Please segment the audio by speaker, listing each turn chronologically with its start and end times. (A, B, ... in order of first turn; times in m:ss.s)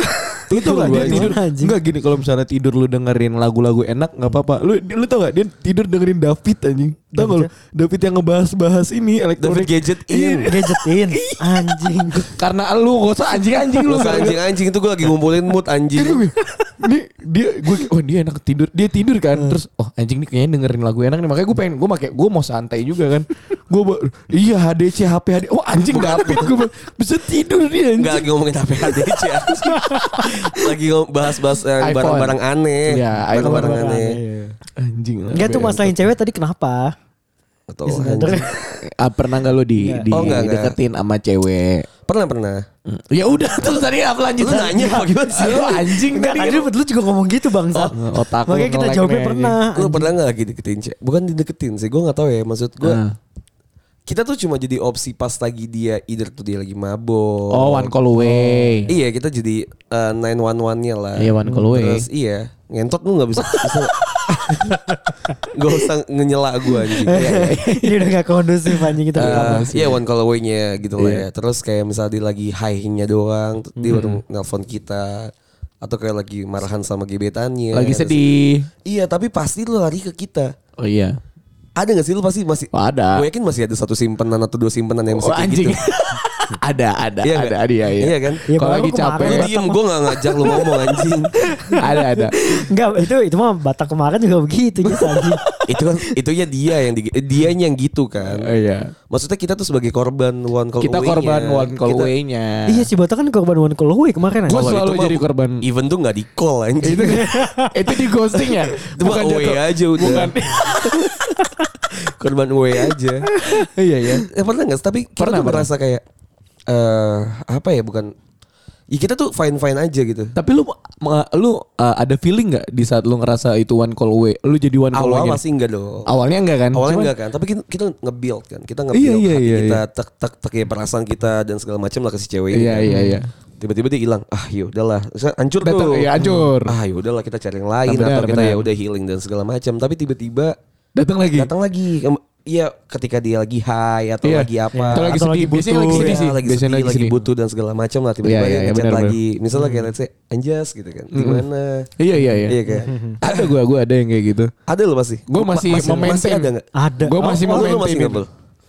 0:00.3-0:01.8 A
0:00.5-0:14.4 B
0:00.5-0:01.3 C
0:07.1-0:07.5 A
0:09.4-0:10.5 C
0:10.4-0:12.3 A
0:13.8-0:16.2 C
0:16.0-0:28.3 B
0:25.8-0:26.5 C
0:28.0-0:34.2 C
0:28.9-0:30.3 B
0:29.8-0:30.3 A
0:31.8-0:33.8 B
0:33.4-0:34.6 A
0:34.8-0:36.0 B
0:35.3-0:36.9 A
0:37.7-0:38.5 C
0:37.8-0:38.5 A
0:38.6-0:41.8 B
0:39.8-0:40.1 A
0:40.1-0:40.8 C
0:42.1-0:42.6 C
0:42.9-0:46.6 B
0:44.4-0:46.4 C
0:45.4-0:50.1 A
0:47.7-0:49.6 B
0:49.7-0:53.0 C
0:52.8-0:53.1 B
0:54.1-0:57.9 C
0:57.5-0:58.9 B
0:58.2-0:58.8 A
0:58.9-1:03.9 C
1:01.2-1:02.1 B
1:03.4-1:04.8 B
1:04.5-1:05.1 A
1:05.5-1:07.3 C
1:06.8-1:08.1 B
1:07.1-1:09.7 A
1:08.7-1:10.0 B
1:09.2-1:18.2 C
1:11.0-1:11.2 B
1:13.9-1:14.2 B
1:17.7-1:18.7 B
1:18.8-1:20.5 C
1:20.8-1:21.2 B
1:21.8-1:25.8 C
1:22.7-1:23.2 B
1:25.1-1:29.5 B
1:27.2-1:28.4 C
1:28.5-1:29.8 A
1:29.2-1:31.3 C
1:31.5-1:35.4 A
1:31.7-1:32.5 B
1:34.9-1:35.6 B
1:35.7-1:38.5 C
1:38.2-1:38.9 B
1:39.1-1:42.1 C
1:40.8-1:42.9 B
1:42.7-1:44.7 A
1:44.5-1:45.6 B
1:44.5-1:47.3 C
1:46.8-1:51.3 B
1:47.0-1:47.8 A
1:48.3-1:50.4 C
1:52.0-1:53.3 C
1:53.4-1:54.3 B
1:54.2-1:56.0 C
1:55.2-1:55.7 B
1:56.7-1:58.1 C
1:58.9-2:00.3 C
2:00.4-2:05.4 B
2:04.9-2:06.1 C
2:06.0-2:07.1 B
2:06.7-2:13.0 C
2:08.9-2:09.8 B
2:12.5-2:13.3 B
2:12.9-2:13.2 A
2:13.6-2:20.5 C
2:15.6-2:16.7 B
2:16.2-2:16.5 A
2:17.8-2:18.6 B
2:21.0-2:21.5 B
2:21.3-2:25.2 C
2:24.2-2:27.2 B
2:24.7-2:26.2 A
2:25.9-2:31.9 C
2:28.2-2:29.2 B
2:29.5-2:29.9 A
2:31.1-2:31.4 B
2:32.0-2:32.6 B
2:32.4-2:33.5 C
2:32.7-2:33.2 A
2:33.2-2:34.5 B
2:34.7-2:36.7 C
2:35.3-2:38.2 B
2:35.8-2:36.0 A
2:36.7-2:37.8 A
2:37.4-2:38.3 C